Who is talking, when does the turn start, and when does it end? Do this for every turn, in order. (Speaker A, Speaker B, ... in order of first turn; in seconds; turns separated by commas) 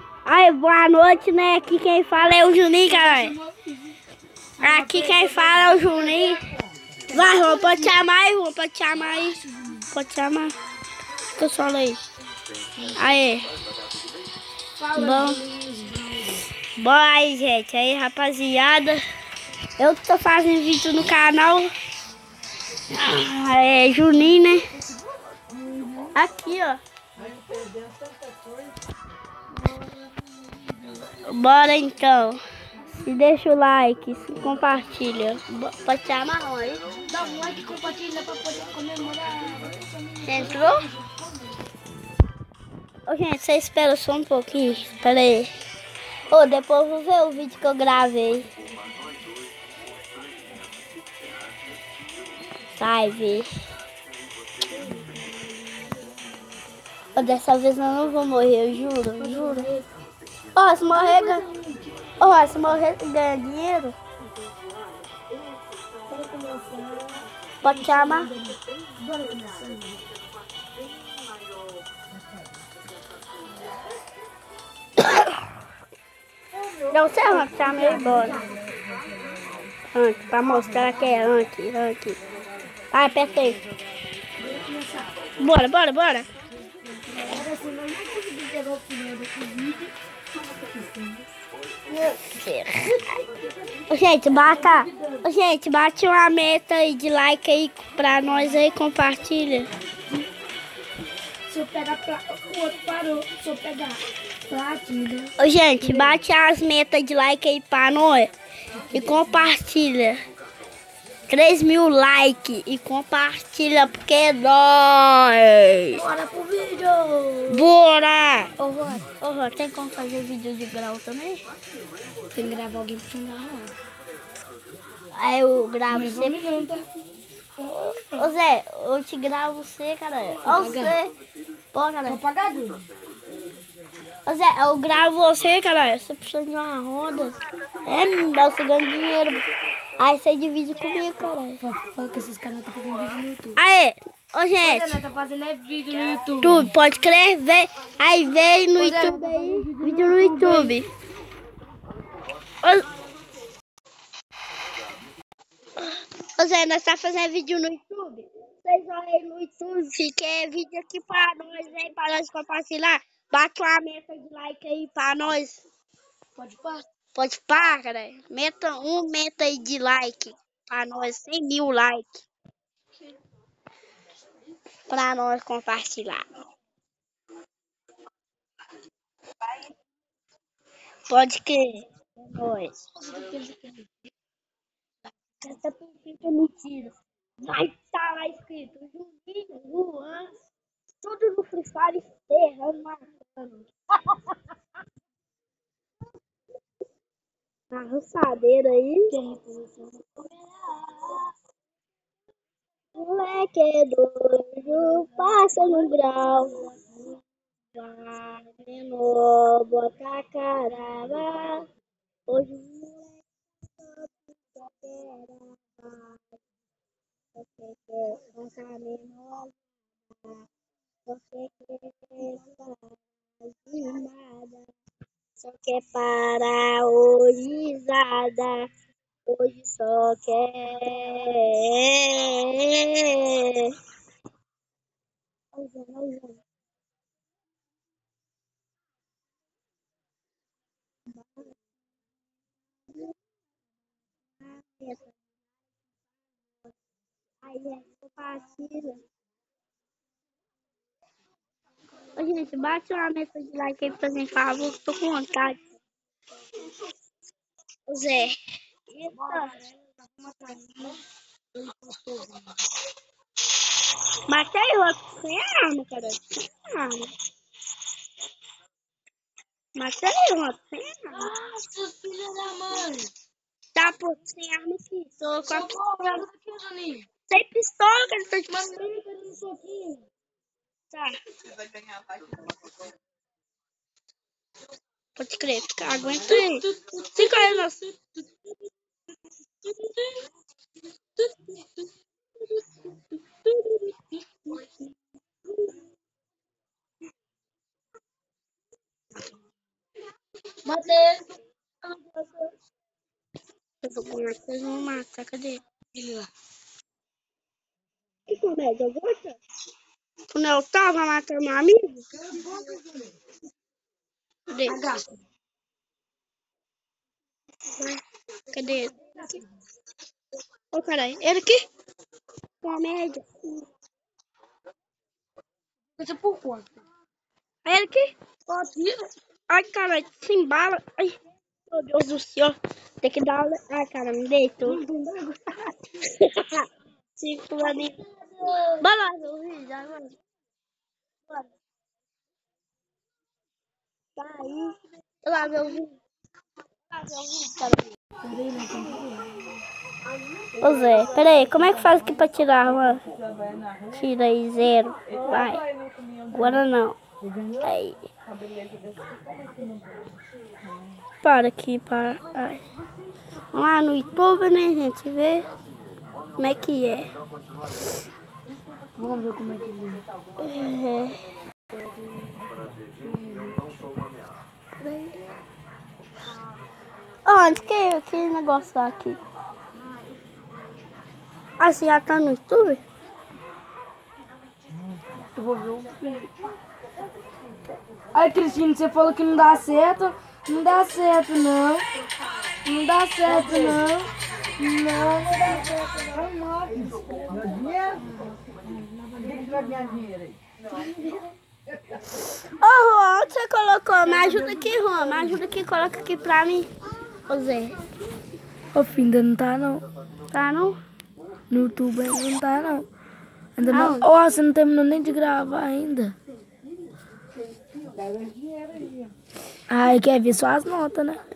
Speaker A: 0.3-3.4, Speaker B: 2.9-3.9, Speaker B: 4.6-5.9, Speaker A: 4.6-6.5, Speaker A: 7.1-10.5, Speaker B: 7.1-8.0, Speaker A: 11.4-12.0, Speaker A: 12.8-13.5, Speaker B: 14.8-16.4, Speaker A: 14.9-15.4, Speaker A: 16.8-19.0, Speaker A: 19.8-21.7, Speaker A: 22.9-24.6, Speaker A: 26.1-26.8, Speaker A: 31.3-32.4, Speaker A: 33.0-36.9, Speaker B: 37.1-41.2, Speaker A: 40.2-40.9, Speaker A: 43.1-45.5, Speaker A: 46.3-48.5, Speaker A: 52.8-53.5, Speaker B: 54.7-56.0, Speaker A: 57.1-59.7, Speaker B: 59.2-59.9, Speaker A: 60.5-61.5, Speaker B: 60.9-61.9, Speaker A: 62.2-64.0, Speaker B: 66.1-68.6, Speaker A: 67.6-68.3, Speaker A: 75.0-75.3, Speaker A: 76.9-78.4, Speaker B: 77.6-78.6, Speaker A: 79.9-82.2, Speaker A: 82.9-83.6, Speaker B: 84.4-85.1, Speaker A: 85.4-86.3, Speaker B: 87.0-89.9, Speaker B: 90.7-91.2, Speaker A: 92.1-93.2, Speaker A: 93.9-99.7, Speaker B: 94.3-95.2, Speaker B: 101.5-106.2, Speaker A: 105.4-108.3, Speaker A: 108.9-110.2, Speaker A: 111.3-116.0, Speaker B: 116.0-117.7, Speaker A: 117.5-118.5, Speaker B: 118.6-119.1, Speaker A: 119.2-121.4, Speaker B: 122.3-123.7, Speaker A: 125.1-126.4, Speaker B: 125.9-126.9, Speaker B: 127.6-128.2, Speaker A: 127.7-131.1, Speaker B: 130.5-131.0, Speaker A: 131.7-132.2, Speaker B: 132.1-132.8, Speaker A: 134.3-139.4, Speaker A: 140.0-141.6, Speaker B: 141.6-143.6, Speaker A: 143.6-145.0, Speaker B: 144.6-146.7, Speaker A: 146.4-150.9, Speaker B: 148.8-150.8, Speaker A: 155.8-165.6, Speaker B: 166.4-166.8, Speaker A: 167.2-172.3, Speaker A: 174.9-176.2, Speaker A: 181.1-182.8, Speaker B: 183.1-183.9, Speaker A: 185.4-190.3, Speaker A: 191.0-193.7, Speaker A: 197.7-199.2, Speaker B: 199.1-200.1, Speaker A: 200.2-201.3, Speaker A: 202.9-206.6, Speaker A: 207.8-211.7, Speaker A: 212.3-213.2, Speaker A: 213.8-216.2, Speaker A: 217.4-219.5, Speaker A: 220.2-220.4, Speaker A: 221.1-224.7, Speaker A: 225.4-228.7, Speaker A: 229.3-233.7, Speaker A: 235.5-236.4, Speaker A: 241.2-241.5, Speaker A: 244.4-245.2, Speaker A: 247.4-249.0, Speaker A: 252.2-255.6, Speaker A: 257.9-258.4, Speaker A: 258.9-259.6, Speaker B: 259.1-261.0, Speaker B: 261.6-262.4, Speaker A: 264.3-267.1, Speaker A: 269.8-271.3, Speaker B: 271.1-273.1, Speaker A: 273.8-275.7, Speaker B: 275.5-277.1, Speaker A: 277.3-278.7, Speaker B: 278.5-280.1, Speaker A: 285.2-287.9, Speaker B: 286.3-287.7, Speaker B: 289.8-290.2, Speaker B: 300.6-301.2, Speaker A: 301.8-302.5, Speaker A: 303.8-305.6, Speaker B: 305.9-306.3, Speaker A: 308.3-309.4, Speaker A: 310.3-312.0, Speaker B: 312.4-312.8, Speaker A: 314.5-314.8, Speaker B: 314.7-315.1, Speaker A: 317.7-319.4, Speaker B: 319.2-319.4, Speaker A: 320.7-321.6, Speaker A: 322.6-323.7, Speaker B: 326.0-326.7, Speaker A: 327.6-328.1, Speaker B: 328.5-329.1, Speaker A: 329.5-331.1, Speaker A: 331.7-334.8, Speaker B: 334.6-335.7, Speaker A: 336.0-336.7, Speaker A: 337.2-338.0, Speaker A: 338.8-340.2, Speaker A: 344.2-346.0, Speaker A: 346.9-347.9, Speaker B: 348.2-349.3, Speaker A: 350.6-353.0, Speaker A: 353.9-355.6, Speaker A: 356.3-357.0, Speaker A: 357.6-358.0, Speaker A: 361.2-362.6, Speaker A: 363.5-365.5, Speaker A: 366.4-367.1, Speaker B: 369.0-370.0, Speaker A: 370.4-371.2, Speaker B: 373.0-373.6, Speaker A: 374.8-375.1, Speaker A: 377.3-379.2, Speaker A: 381.6-382.8, Speaker B: 385.4-386.3, Speaker B: 388.1-391.9, Speaker B: 392.6-397.6, Speaker B: 399.1-400.1, Speaker A: 402.6-406.7, Speaker A: 407.3-407.8, Speaker B: 408.8-409.9, Speaker A: 410.3-410.8, Speaker B: 411.5-412.9, Speaker B: 413.6-416.2, Speaker A: 413.7-414.1, Speaker B: 419.7-421.2